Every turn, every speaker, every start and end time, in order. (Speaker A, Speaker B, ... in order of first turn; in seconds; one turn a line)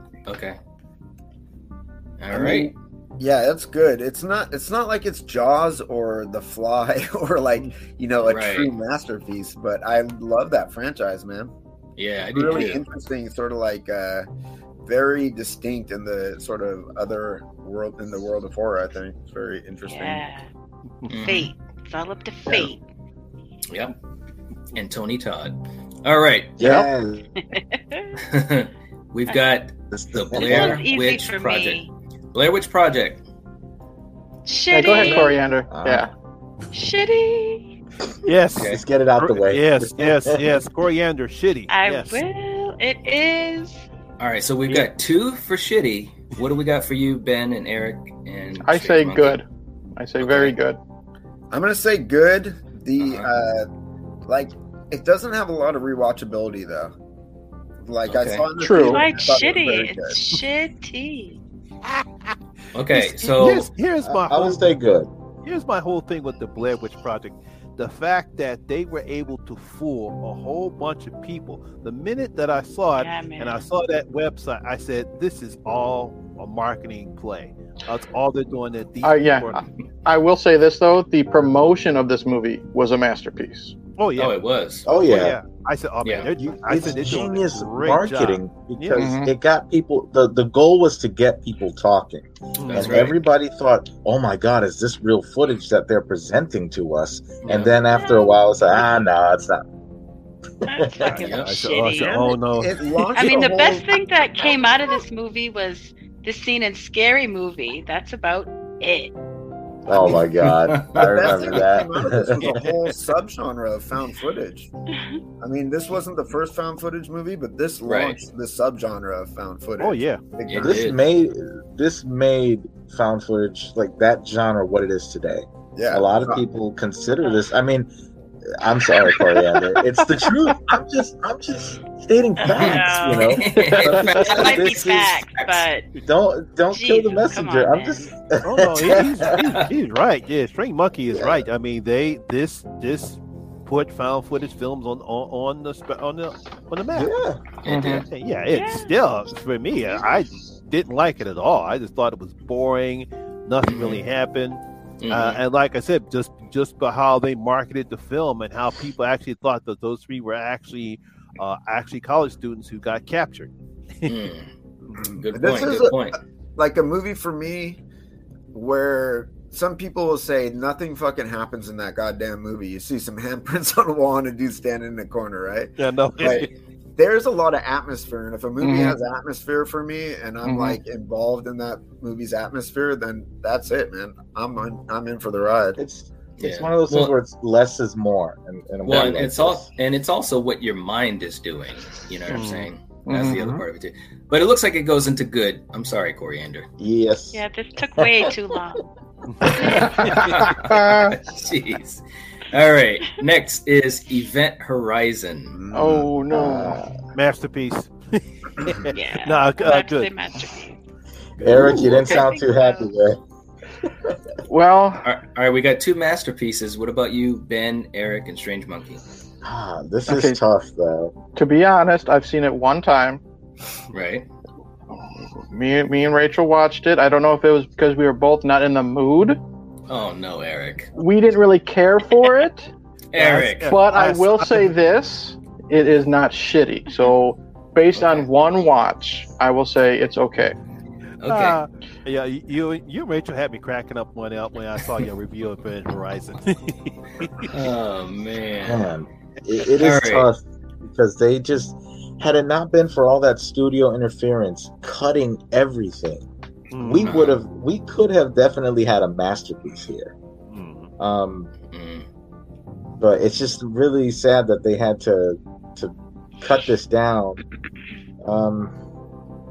Speaker A: 0.3-0.6
Speaker A: 2.2-2.7
Speaker B: 2.3-11.5
Speaker A: 8.2-8.7
Speaker A: 12.0-12.8
Speaker B: 12.3-14.3
Speaker B: 14.9-20.3
Speaker C: 19.9-20.5
Speaker A: 21.1-21.5
Speaker C: 21.1-22.8
Speaker A: 23.7-24.0
Speaker A: 24.7-26.6
Speaker D: 26.6-27.3
Speaker C: 27.5-28.1
Speaker A: 28.2-33.2
Speaker D: 29.9-30.8
Speaker C: 30.4-31.9
Speaker C: 34.5-35.4
Speaker E: 34.7-36.1
Speaker D: 35.7-36.1
Speaker C: 36.7-37.7
Speaker F: 38.3-42.2
Speaker A: 38.6-38.8
Speaker D: 38.6-40.5
Speaker C: 41.7-43.9
Speaker A: 44.2-49.4
Speaker E: 48.6-49.4
Speaker E: 50.0-50.8
Speaker A: 50.2-50.5
Speaker B: 51.5-53.7
Speaker A: 53.0-53.3
Speaker B: 54.3-56.9
Speaker B: 57.8-60.2
Speaker A: 58.1-58.5
Speaker E: 58.6-59.0
Speaker C: 58.8-61.4
Speaker F: 61.9-62.3
Speaker A: 62.7-63.7
Speaker F: 62.9-64.7
Speaker D: 64.0-65.1
Speaker F: 65.4-79.6
Speaker C: 73.0-73.7
Speaker E: 79.0-83.7
Speaker F: 84.0-84.4
Speaker A: 84.2-85.3
Speaker D: 84.9-85.4
Speaker F: 85.0-89.1
Speaker A: 86.0-86.3
Speaker D: 86.7-99.6
Speaker E: 89.0-89.3
Speaker F: 92.6-93.1
Speaker A: 92.7-93.2
Speaker A: 97.5-97.7
Speaker C: 97.8-98.4
Speaker C: 100.7-102.4
Speaker D: 100.7-101.2
Speaker F: 101.0-102.8
Speaker A: 101.2-101.5
Speaker B: 102.1-103.9
Speaker C: 103.1-109.1
Speaker D: 109.9-112.5
Speaker B: 110.0-110.2
Speaker A: 110.5-111.4
Speaker B: 111.0-114.7
Speaker F: 112.4-112.8
Speaker B: 115.4-120.8
Speaker A: 117.9-118.2
Speaker F: 119.8-120.2
Speaker A: 120.5-121.0
Speaker D: 120.6-127.9
Speaker B: 125.8-126.4
Speaker D: 128.5-135.3
Speaker C: 132.4-133.4
Speaker A: 132.5-135.6
Speaker E: 133.5-134.3
Speaker C: 134.2-135.9
Speaker D: 136.0-139.5
Speaker C: 136.7-138.1
Speaker F: 138.4-147.1
Speaker D: 141.1-141.4
Speaker D: 146.9-147.4
Speaker A: 147.6-148.1
Speaker E: 147.7-148.0
Speaker F: 148.1-164.2
Speaker C: 148.5-149.0
Speaker C: 149.8-150.2
Speaker A: 153.6-154.0
Speaker A: 155.0-155.4
Speaker A: 164.1-164.5
Speaker B: 165.0-167.8
Speaker A: 165.0-166.2
Speaker B: 168.5-185.8
Speaker F: 175.8-176.5
Speaker E: 178.6-179.0
Speaker E: 180.4-180.8
Speaker D: 185.8-189.7
Speaker A: 186.4-187.1
Speaker A: 188.8-196.7
Speaker F: 192.3-192.7
Speaker E: 193.1-193.4
Speaker D: 193.1-193.6
Speaker D: 196.8-197.4
Speaker C: 197.3-198.8
Speaker F: 199.3-200.2
Speaker C: 199.4-200.0
Speaker A: 199.9-205.6
Speaker E: 200.0-201.1
Speaker B: 205.5-206.1
Speaker E: 205.7-206.8
Speaker D: 206.3-207.0
Speaker F: 207.1-210.1
Speaker C: 208.9-210.8
Speaker D: 211.4-213.2
Speaker F: 211.4-211.7
Speaker C: 211.8-212.9
Speaker E: 214.5-215.1
Speaker A: 215.1-219.0
Speaker D: 219.4-221.2
Speaker E: 220.1-220.4
Speaker E: 221.3-223.2
Speaker A: 223.9-224.3
Speaker E: 224.9-229.4
Speaker A: 229.9-230.9
Speaker E: 231.0-232.7
Speaker A: 233.1-233.7
Speaker F: 233.2-234.7
Speaker E: 233.6-240.6
Speaker A: 237.9-238.3
Speaker A: 241.2-241.6
Speaker F: 241.3-247.5
Speaker A: 247.5-248.9
Speaker D: 248.6-256.3
Speaker A: 249.8-250.3
Speaker F: 256.7-257.2
Speaker D: 256.8-260.1
Speaker A: 257.0-257.4
Speaker F: 260.5-260.9
Speaker D: 261.0-261.5
Speaker A: 261.7-262.1
Speaker D: 263.0-267.4
Speaker D: 268.2-268.7